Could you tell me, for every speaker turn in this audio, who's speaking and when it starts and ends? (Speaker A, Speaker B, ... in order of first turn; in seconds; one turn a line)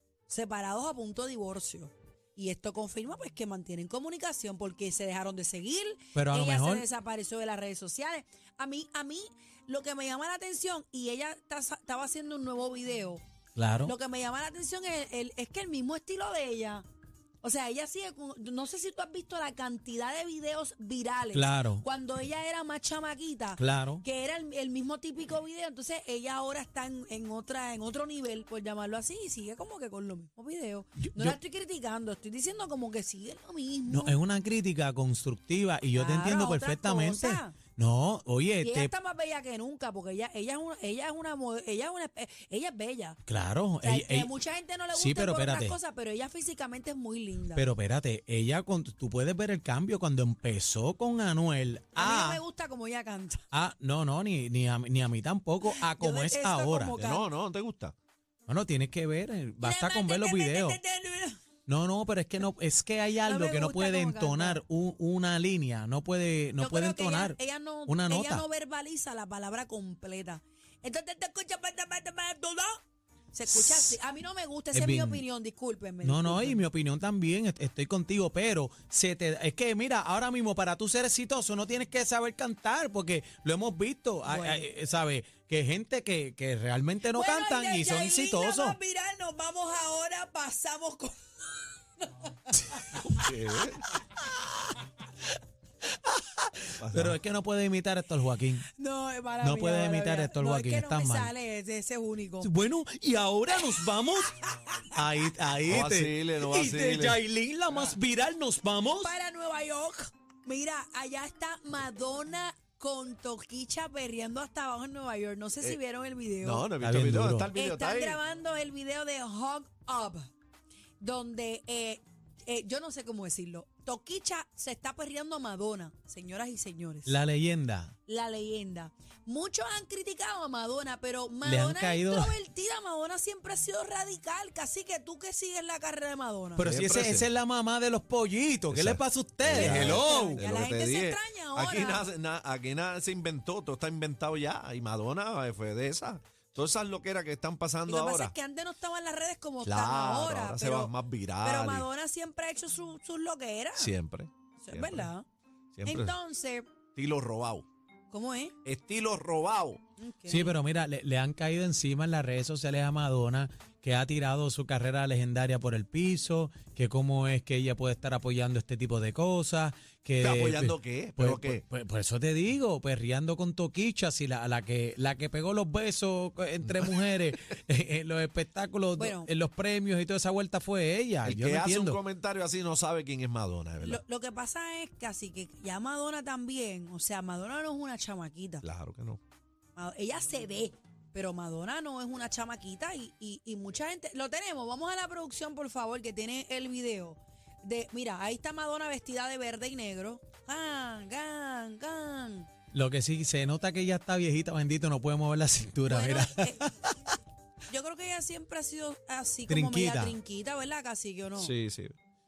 Speaker A: 0.3-13.2
Speaker B: 6.1-6.9
Speaker B: 13.6-13.9
Speaker A: 13.8-16.8
Speaker A: 17.4-34.2
Speaker B: 21.3-21.8
Speaker B: 23.6-24.0
Speaker B: 31.0-31.4
Speaker B: 33.9-38.9
Speaker A: 35.9-37.6
Speaker A: 38.6-43.2
Speaker B: 43.3-44.3
Speaker A: 43.8-47.7
Speaker B: 44.9-45.8
Speaker B: 47.5-52.4
Speaker A: 52.0-53.4
Speaker B: 53.5-57.0
Speaker A: 55.6-57.3
Speaker C: 57.0-57.9
Speaker B: 58.5-60.8
Speaker A: 59.6-61.4
Speaker B: 61.7-68.4
Speaker A: 63.2-64.6
Speaker A: 66.6-72.8
Speaker A: 73.3-76.6
Speaker B: 73.5-74.0
Speaker B: 74.7-75.2
Speaker B: 76.0-88.8
Speaker A: 84.2-84.7
Speaker A: 87.1-91.2
Speaker A: 92.0-93.3
Speaker C: 93.1-93.8
Speaker B: 96.1-98.7
Speaker C: 96.8-97.2
Speaker A: 98.8-102.5
Speaker B: 99.4-101.3
Speaker B: 102.4-104.3
Speaker A: 103.7-104.9
Speaker B: 104.9-109.1
Speaker C: 105.7-107.2
Speaker A: 109.0-116.7
Speaker C: 116.5-118.2
Speaker B: 116.8-117.5
Speaker A: 117.5-120.3
Speaker A: 121.0-127.2
Speaker B: 127.1-127.9
Speaker A: 128.1-136.7
Speaker B: 131.4-132.4
Speaker B: 136.6-140.4
Speaker C: 136.6-137.3
Speaker C: 138.7-148.3
Speaker A: 139.5-142.1
Speaker A: 147.9-153.9
Speaker C: 149.6-151.9
Speaker C: 153.8-155.1
Speaker A: 154.6-155.2
Speaker C: 155.8-156.1
Speaker A: 155.8-156.7
Speaker C: 156.9-157.6
Speaker A: 158.1-158.5
Speaker C: 158.6-159.8
Speaker A: 160.0-160.6
Speaker B: 160.3-182.0
Speaker C: 170.2-171.6
Speaker A: 179.0-179.3
Speaker C: 181.2-184.0
Speaker A: 183.8-188.6
Speaker C: 188.6-189.2
Speaker A: 189.8-202.5
Speaker B: 202.7-206.9
Speaker A: 205.9-206.7
Speaker A: 207.7-211.5
Speaker B: 209.5-210.2
Speaker C: 211.4-211.9